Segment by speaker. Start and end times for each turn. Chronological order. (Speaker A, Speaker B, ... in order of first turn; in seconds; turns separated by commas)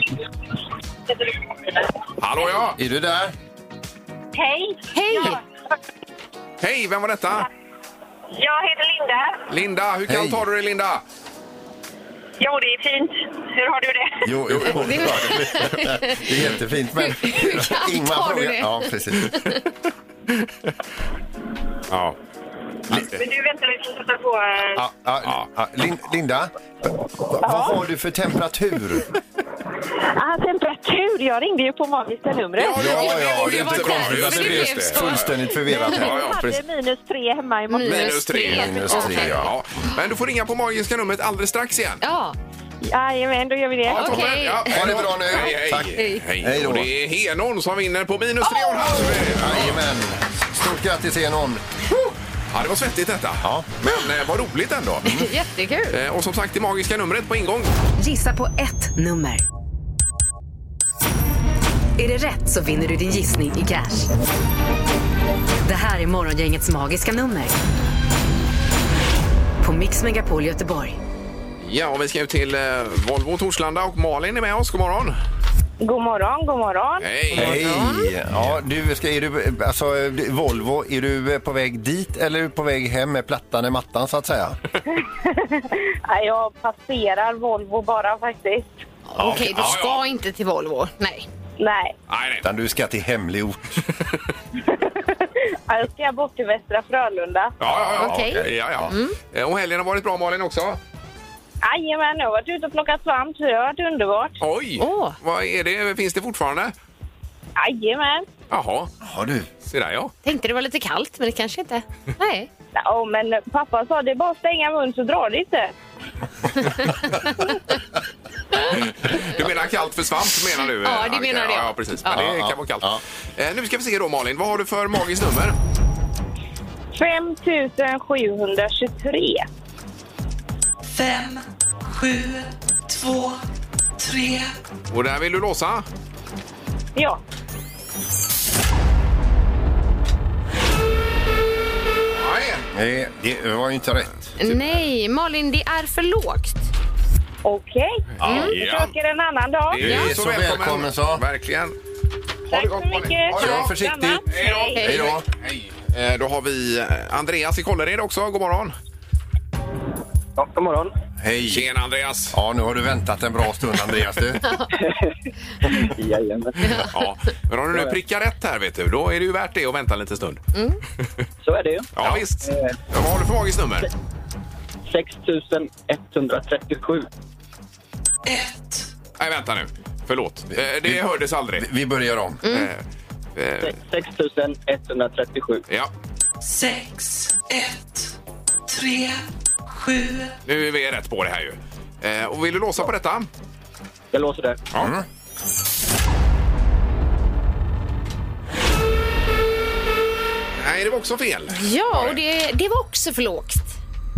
Speaker A: 2.2-2.8, Speaker B: 2.7-3.3, Speaker C: 4.3-5.3, Speaker D: 4.9-5.4, Speaker A: 6.6-7.5, Speaker C: 8.4-9.4, Speaker A: 9.5-11.0, Speaker B: 10.1-10.4, Speaker C: 12.4-14.2, Speaker B: 14.2-19.4, Speaker A: 14.5-15.7, Speaker D: 14.6-16.2, Speaker D: 17.0-19.6, Speaker A: 21.9-22.2, Speaker C: 23.0-24.8, Speaker B: 24.7-26.5, Speaker B: 27.3-29.1, Speaker C: 27.4-27.8, Speaker C: 30.2-33.0, Speaker A: 32.6-36.6, Speaker B: 32.7-36.4, Speaker D: 32.9-36.1, Speaker C: 36.0-38.4, Speaker D: 37.7-39.5, Speaker A: 37.8-42.0, Speaker B: 38.4-39.6, Speaker D: 42.0-42.4, Speaker C: 42.8-44.2, Speaker A: 43.9-49.8, Speaker D: 43.9-46.2, Speaker B: 44.6-46.9, Speaker D: 48.4-49.1, Speaker B: 49.3-51.6, Speaker A: 52.5-55.1, Speaker B: 53.4-53.7, Speaker D: 55.0-56.0, Speaker A: 55.9-57.7, Speaker E: 58.0-59.4, Speaker E: 62.0-64.1, Speaker E: 65.6-67.5, Speaker E: 69.6-71.0, Speaker A: 71.6-75.2, Speaker A: 77.0-77.6, Speaker B: 77.3-84.6, Speaker D: 77.3-78.1, Speaker F: 86.1-88.6, Speaker D: 89.1-91.3, Speaker B: 89.2-89.8, Speaker A: 89.4-90.0, Speaker A: 92.1-92.5, Speaker B: 92.4-93.8, Speaker F: 96.5-97.0, Speaker A: 97.6-100.8, Speaker B: 97.6-98.9, Speaker D: 98.0-99.2, Speaker A: 104.4-106.7, Speaker D: 104.8-105.2, Speaker F: 107.7-107.9, Speaker A: 108.5-108.9, Speaker B: 109.0-109.5, Speaker A: 109.6-110.1, Speaker D: 110.2-112.5, Speaker F: 113.3-113.8, Speaker F: 114.5-115.2, Speaker A: 118.7-125.6, Speaker D: 120.8-122.2, Speaker B: 122.1-123.0, Speaker G: 130.9-133.4, Speaker G: 134.0-134.5, Speaker A: 134.9-135.8, Speaker A: 142.1-142.6, Speaker B: 142.7-144.3, Speaker D: 144.4-146.7, Speaker F: 147.5-147.8, Speaker B: 148.2-148.6, Speaker A: 148.2-148.9, Speaker D: 148.2-148.5, Speaker F: 148.6-148.9, Speaker A: 149.7-151.8, Speaker B: 149.8-151.2, Speaker D: 149.8-150.1, Speaker A: 152.5-153.4, Speaker F: 152.5-154.6, Speaker B: 153.3-155.2, Speaker A: 154.3-158.7, Speaker D: 154.7-155.1, Speaker H: 160.4-160.9, Speaker B: 161.2-161.7, Speaker A: 161.4-162.4, Speaker B: 162.3-164.4, Speaker D: 164.4-164.8, Speaker H: 164.8-165.1, Speaker H: 165.7-166.8, Speaker D: 166.6-166.9, Speaker A: 166.8-170.4, Speaker H: 171.4-171.9, Speaker A: 171.9-173.9, Speaker H: 172.4-172.8, Speaker H: 174.9-177.1, Speaker G: 178.2-178.9, Speaker A: 179.2-181.7, Speaker B: 180.6-182.4, Speaker D: 182.4-182.7, Speaker A: 182.4-182.8, Speaker A: 183.3-183.8, Speaker H: 183.6-185.6, Speaker G: 186.4-188.1, Speaker G: 188.7-190.3, Speaker A: 190.4-193.3, Speaker H: 194.1-194.6, Speaker B: 194.8-195.0, Speaker A: 200.6-202.2, Speaker D: 201.5-203.8